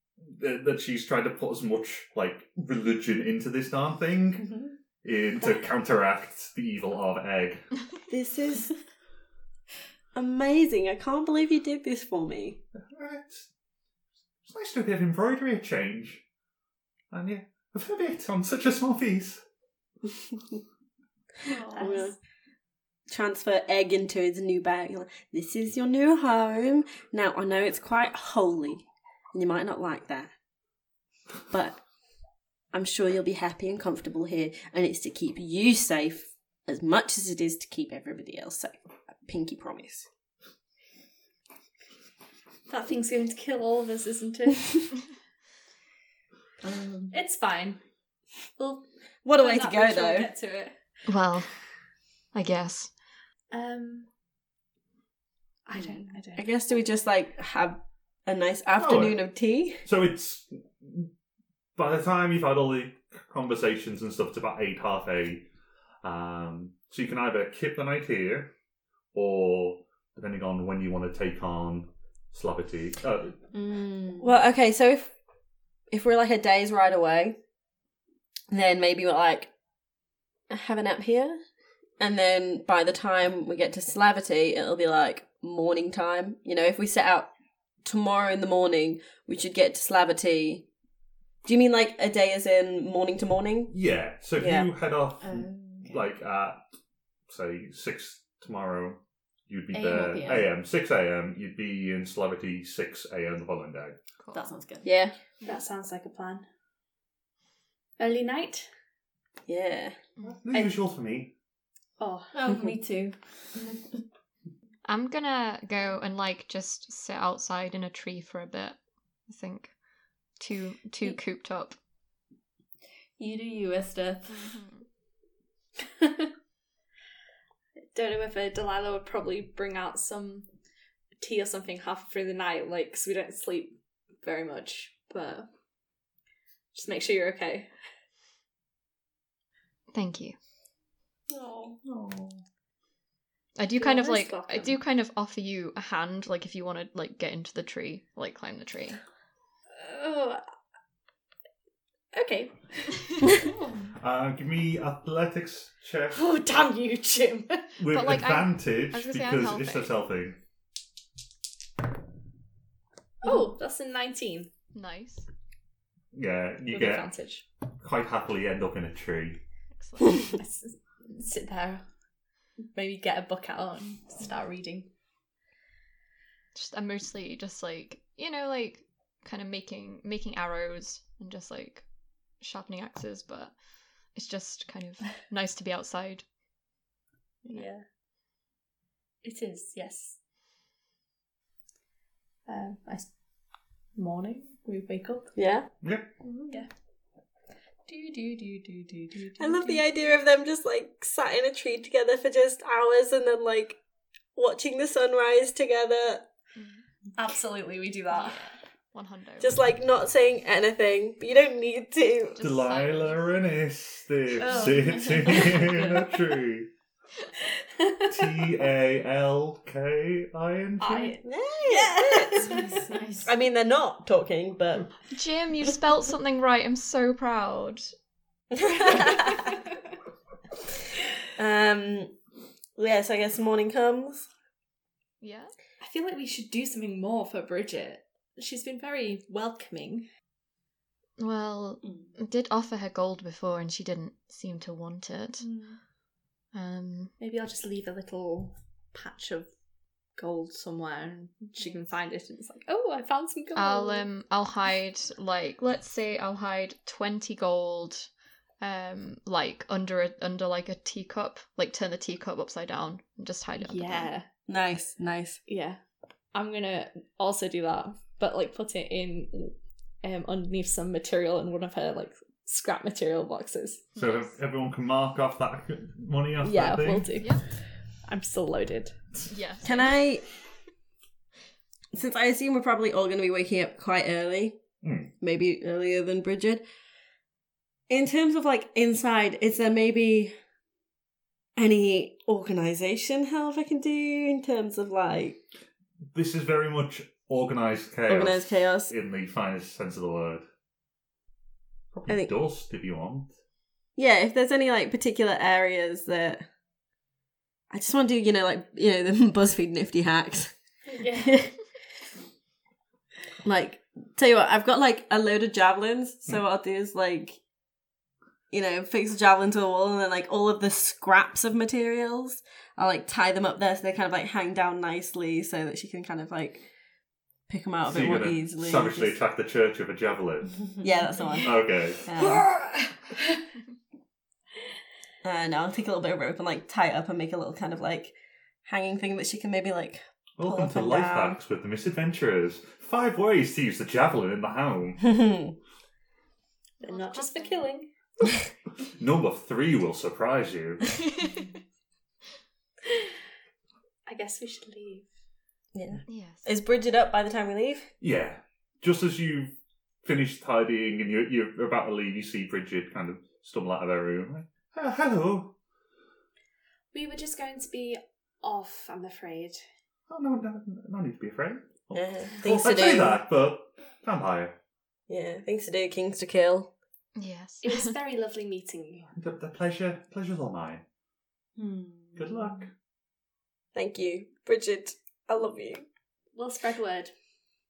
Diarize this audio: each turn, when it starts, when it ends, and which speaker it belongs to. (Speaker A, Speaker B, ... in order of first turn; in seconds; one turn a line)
Speaker A: 0.3-7.7
Speaker B: 8.1-8.7
Speaker B: 10.1-12.6
Speaker A: 12.8-13.5
Speaker A: 14.4-16.2
Speaker A: 17.1-19.4
Speaker B: 20.3-20.6
Speaker C: 21.5-22.1
Speaker D: 21.5-22.1
Speaker B: 21.8-22.1
Speaker B: 23.1-30.3
Speaker B: 31.5-31.8
Speaker B: 32.7-38.7
Speaker B: 39.2-40.1
Speaker D: 42.7-44.8
Speaker C: 46.6-47.2
Speaker D: 47.1-47.8
Speaker D: 48.6-50.8
Speaker B: 49.2-50.3
Speaker E: 51.1-51.5
Speaker E: 52.3-52.9
Speaker D: 53.5-54.1
Speaker D: 55.7-56.5
Speaker B: 56.4-59.8
Speaker A: 58.8-59.2
Speaker A: 59.9-61.1
Speaker A: 61.8-65.5
Speaker A: 66.0-68.5
Speaker A: 69.1-73.4
Speaker C: 73.5-74.3
Speaker B: 74.2-75.1
Speaker B: 75.9-77.4
Speaker B: 78.5-79.5
Speaker B: 80.5-81.4
Speaker B: 82.0-87.3
Speaker B: 87.8-90.7
Speaker B: 91.5-93.7
Speaker A: 93.7-96.6
Speaker B: 94.4-94.7
Speaker C: 95.2-96.1
Speaker A: 97.3-104.0
Speaker C: 99.7-100.6
Speaker E: 104.2-104.5
Speaker C: 104.3-104.9
Speaker B: 104.8-105.2
Speaker D: 105.4-106.5
Speaker D: 108.0-108.7
Speaker B: 109.5-110.0
Speaker A: 110.2-111.3
Speaker D: 112.0-112.3
Speaker C: 112.3-114.0
Speaker E: 114.8-118.8
Speaker E: 119.3-119.7
Speaker E: 120.4-121.8
Speaker C: 123.2-124.6
Speaker E: 124.3-124.9
Speaker D: 127.9-130.5
Speaker D: 131.2-135.5
Speaker D: 136.7-137.7
Speaker E: 139.9-140.3
Speaker C: 141.3-141.8
Speaker A: 141.8-142.4
Speaker E: 143.6-149.0
Speaker C: 143.8-144.8
Speaker D: 149.8-150.4
Speaker D: 152.1-153.5
Speaker C: 153.4-153.7
Speaker A: 154.0-156.2
Speaker D: 156.1-157.7
Speaker A: 157.8-160.4
Speaker E: 157.9-159.9
Speaker D: 163.2-164.5
Speaker E: 164.7-165.3
Speaker A: 166.1-167.1
Speaker D: 166.7-167.4
Speaker A: 167.8-169.4
Speaker E: 169.8-170.2
Speaker D: 170.3-171.8
Speaker D: 172.7-174.9
Speaker E: 176.6-181.9
Speaker E: 182.4-183.5
Speaker E: 184.1-186.2
Speaker D: 187.5-187.8
Speaker D: 189.2-190.2
Speaker D: 192.5-193.1
Speaker D: 194.0-195.3
Speaker B: 195.4-195.7
Speaker A: 195.8-196.1
Speaker C: 196.2-196.6
Speaker D: 197.9-199.9
Speaker B: 199.4-203.8
Speaker B: 204.3-206.2
Speaker E: 206.6-206.9
Speaker D: 207.2-208.4
Speaker E: 208.1-209.5
Speaker B: 209.4-212.4
Speaker E: 212.4-213.3
Speaker A: 212.4-216.7
Speaker D: 214.4-215.7
Speaker C: 214.8-215.9
Speaker D: 217.8-218.3
Speaker A: 218.1-221.2
Speaker D: 220.8-222.6
Speaker B: 221.2-222.5
Speaker C: 222.4-223.3
Speaker B: 223.2-224.9
Speaker E: 225.1-227.9
Speaker B: 228.6-229.4
Speaker B: 231.3-232.2
Speaker B: 232.8-234.3
Speaker E: 235.2-235.5
Speaker D: 235.8-240.1
Speaker E: 241.2-245.4
Speaker C: 241.8-242.1
Speaker D: 245.4-245.8
Speaker E: 246.5-247.1
Speaker D: 247.2-249.5
Speaker D: 250.2-254.1
Speaker E: 251.6-251.9
Speaker E: 253.6-258.1
Speaker E: 258.6-264.1
Speaker D: 263.6-264.3
Speaker B: 264.5-265.4
Speaker D: 265.5-265.8
Speaker D: 266.3-273.9
Speaker E: 274.0-274.3
Speaker A: 274.0-277.2
Speaker D: 276.4-279.1
Speaker E: 279.3-279.7
Speaker B: 279.6-280.2
Speaker B: 281.9-284.6
Speaker A: 284.8-285.1
Speaker B: 285.2-286.6
Speaker B: 287.9-290.4
Speaker B: 291.6-295.4
Speaker A: 296.1-300.4
Speaker B: 298.1-298.9
Speaker A: 301.9-303.3
Speaker B: 304.0-306.4
Speaker B: 307.7-310.5
Speaker D: 310.9-311.5
Speaker B: 311.1-311.5
Speaker B: 313.4-317.4
Speaker B: 318.5-326.6
Speaker B: 327.5-329.2
Speaker A: 327.8-330.6
Speaker B: 330.8-332.5
Speaker A: 331.4-332.1
Speaker B: 335.2-341.4
Speaker A: 340.4-345.1
Speaker B: 345.0-345.5
Speaker D: 346.8-347.9
Speaker E: 346.8-347.7
Speaker A: 349.0-350.9
Speaker D: 354.1-355.1
Speaker B: 355.7-357.9
Speaker E: 356.1-356.5
Speaker A: 358.0-359.5
Speaker A: 360.0-365.5
Speaker D: 366.9-369.6
Speaker A: 370.1-374.6
Speaker B: 371.9-373.2
Speaker B: 375.1-376.7
Speaker E: 377.2-377.9
Speaker D: 377.6-379.1
Speaker A: 379.1-380.8
Speaker C: 381.6-382.6
Speaker A: 382.2-382.7
Speaker B: 383.7-385.9
Speaker D: 386.4-387.1